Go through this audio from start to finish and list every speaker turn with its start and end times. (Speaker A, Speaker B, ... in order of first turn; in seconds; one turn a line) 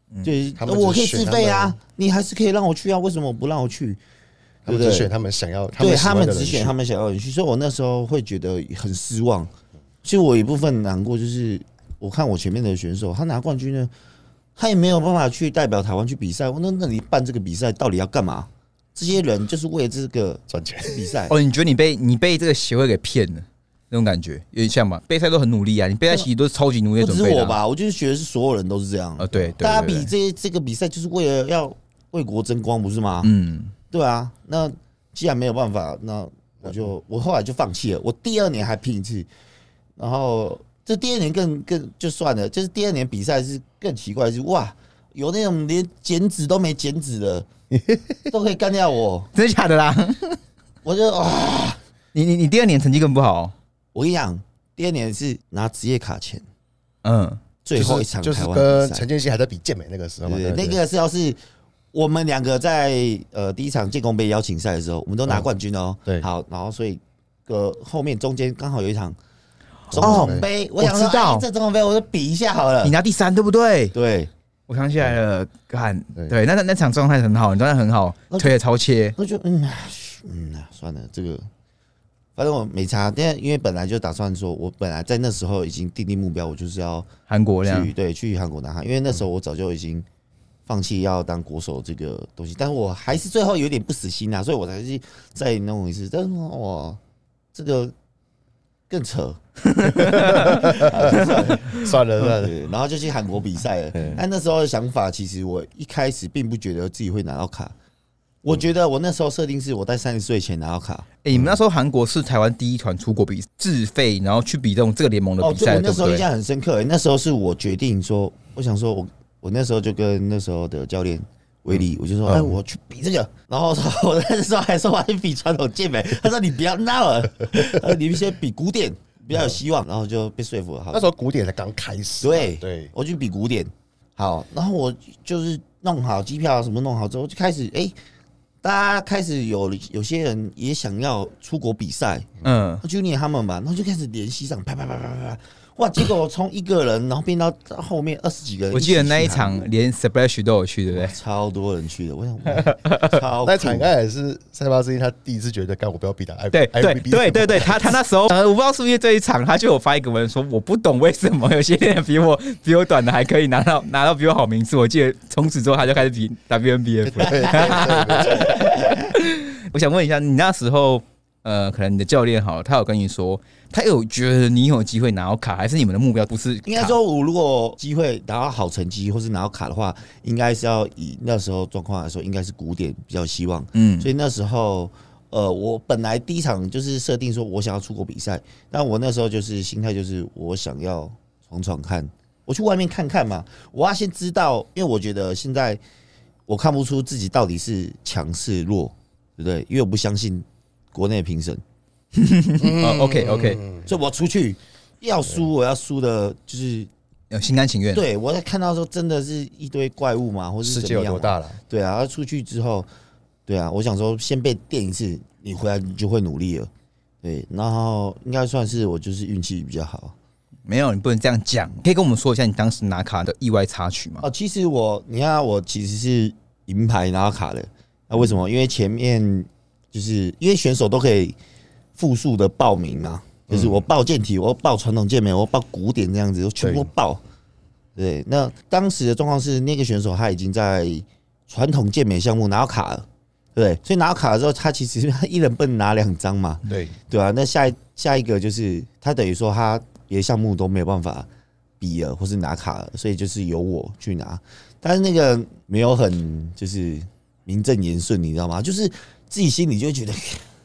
Speaker A: 0.2-4.0
Speaker B: 0.6-1.8
Speaker A: 4.7-5.1
Speaker B: 4.7-6.7
Speaker A: 5.8-9.5
Speaker A: 10.0-13.9
Speaker A: 14.6-21.4
Speaker B: 20.5-21.1
Speaker C: 21.3-27.6
Speaker A: 27.0-33.3
Speaker C: 29.2-30.1
Speaker C: 33.2-33.7
Speaker A: 33.9-39.3
Speaker A: 40.0-47.5
Speaker B: 47.7-48.2
Speaker A: 48.3-49.3
Speaker C: 49.3-50.4
Speaker A: 50.8-51.8
Speaker C: 52.1-53.5
Speaker A: 53.9-56.4
Speaker C: 57.0-57.4
Speaker A: 57.6-59.0
Speaker B: 57.7-60.8
Speaker A: 60.2-61.4
Speaker A: 61.9-69.2
Speaker C: 69.9-71.5
Speaker A: 69.9-73.0
Speaker B: 69.9-70.5
Speaker C: 72.8-73.9
Speaker A: 73.9-74.3
Speaker C: 74.7-79.2
Speaker A: 79.2-81.5
Speaker A: 82.3-87.1
Speaker C: 87.3-87.9
Speaker A: 87.6-90.0
Speaker A: 90.7-97.0
Speaker A: 97.5-97.9
Speaker A: 98.9-99.4
Speaker C: 99.6-101.8
Speaker B: 99.8-102.6
Speaker A: 100.1-107.7
Speaker B: 103.9-104.2
Speaker A: 108.4-111.1
Speaker C: 111.2-116.2
Speaker A: 115.4-131.1
Speaker B: 122.2-122.6
Speaker B: 130.9-132.9
Speaker A: 132.2-137.9
Speaker A: 138.6-142.3
Speaker C: 142.4-142.8
Speaker A: 142.8-149.7
Speaker C: 148.7-151.1
Speaker A: 150.9-153.9
Speaker C: 152.5-153.1
Speaker B: 153.4-157.9
Speaker C: 156.5-177.0
Speaker B: 167.1-168.5
Speaker A: 168.3-169.1
Speaker A: 176.6-195.8
Speaker C: 183.7-184.1
Speaker A: 196.5-201.6
Speaker C: 202.1-203.6
Speaker B: 202.6-203.8
Speaker A: 203.8-206.9
Speaker C: 207.3-208.1
Speaker A: 207.9-212.9
Speaker B: 210.6-211.6
Speaker A: 213.4-216.7
Speaker A: 217.2-220.2
Speaker C: 220.7-224.2
Speaker A: 224.2-231.3
Speaker A: 231.9-237.2
Speaker B: 233.5-233.8
Speaker B: 236.6-236.9
Speaker A: 237.9-251.3
Speaker B: 246.7-246.9
Speaker A: 251.8-260.5